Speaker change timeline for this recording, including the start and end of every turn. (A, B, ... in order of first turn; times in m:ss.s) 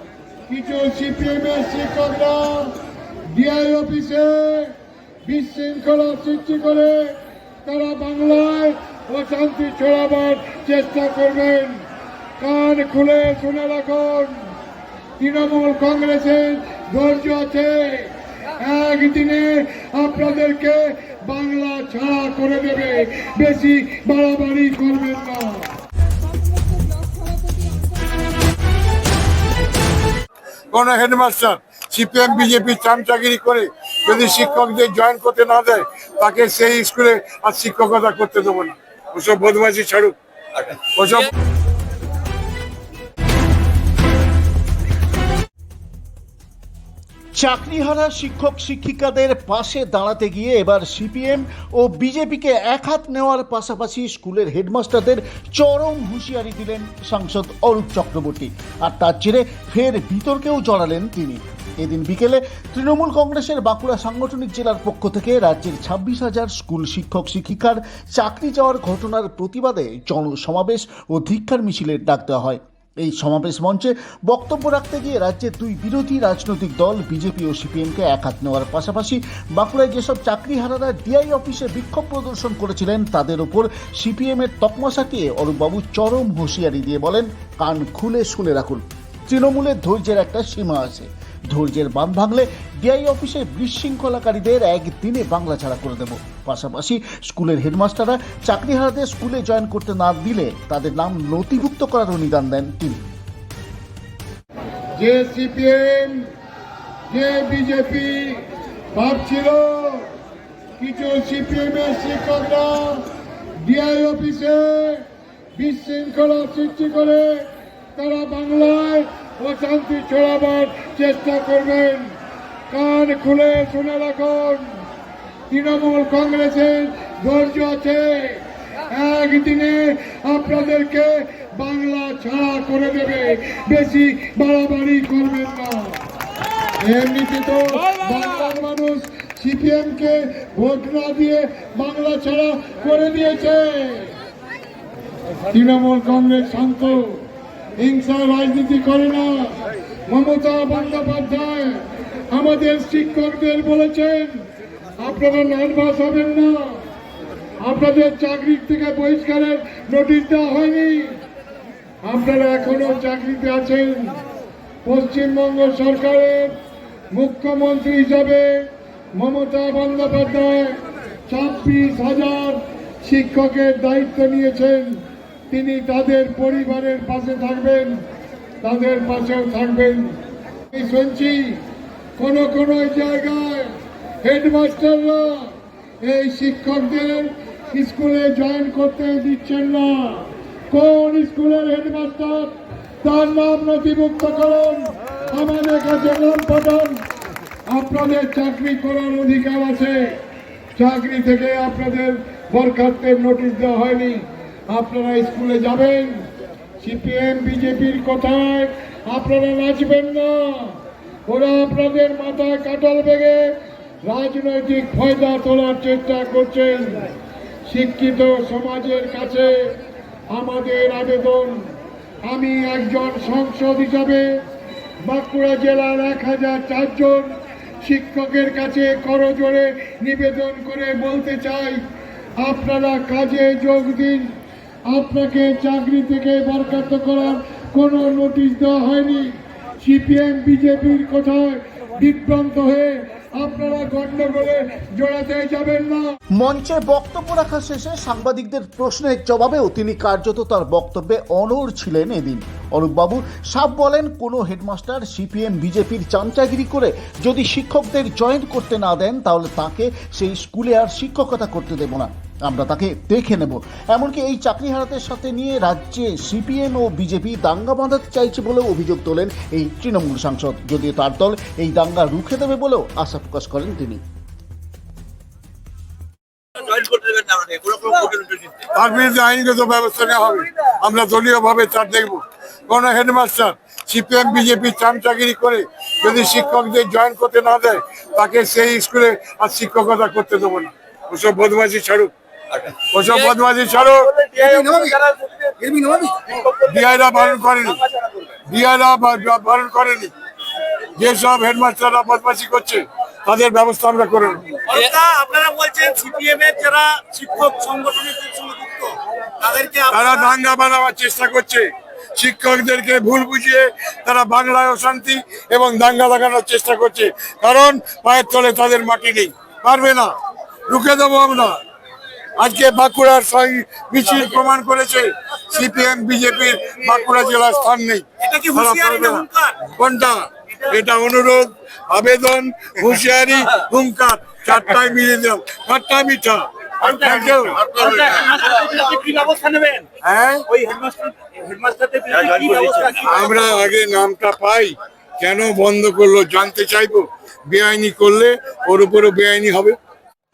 0:00.5-0:02.8 A
0:03.3-0:04.7 A
0:05.2-0:11.9 A
0:12.4-0:14.5 A
0:15.2-0:25.7 A
0:30.7-0:41.3 B
0:47.4-1:43.0 C
1:45.0-1:46.3 A
1:47.1-1:50.1 A
1:50.8-1:53.1 A
1:53.6-2:02.2 A
2:02.7-2:04.8 A
2:05.5-2:16.0 A
2:16.8-2:24.2 A
2:25.5-2:36.8 A
2:37.6-2:41.2 A
2:42.0-2:44.2 A
2:44.8-2:46.6 A
2:47.1-2:58.0 A
2:58.6-3:00.2 A
3:00.7-3:01.6 A
3:02.2-3:17.0 A
3:17.7-3:20.2 A
3:20.7-3:26.3 A
3:26.8-3:37.1 A
3:37.7-3:39.8 A
3:40.3-3:44.4 A
3:45.0-3:51.8 A
3:52.4-4:06.2 A
4:06.4-4:34.0 C
4:36.6-4:38.6 D
4:38.7-4:52.1 B
4:52.7-4:54.1 B
4:53.9-4:58.3 D
4:56.5-4:57.8 B
4:58.5-5:00.1 B
5:01.0-5:04.6 B
5:04.6-5:10.3 D
5:09.9-5:20.2 B
5:20.7-5:21.6 B
5:22.4-5:38.5 B
5:28.2-5:29.7 D
5:30.5-5:30.8 D
5:36.8-5:39.9 D
5:40.0-5:40.5 B
5:40.5-5:43.6 D
5:42.2-5:49.8 B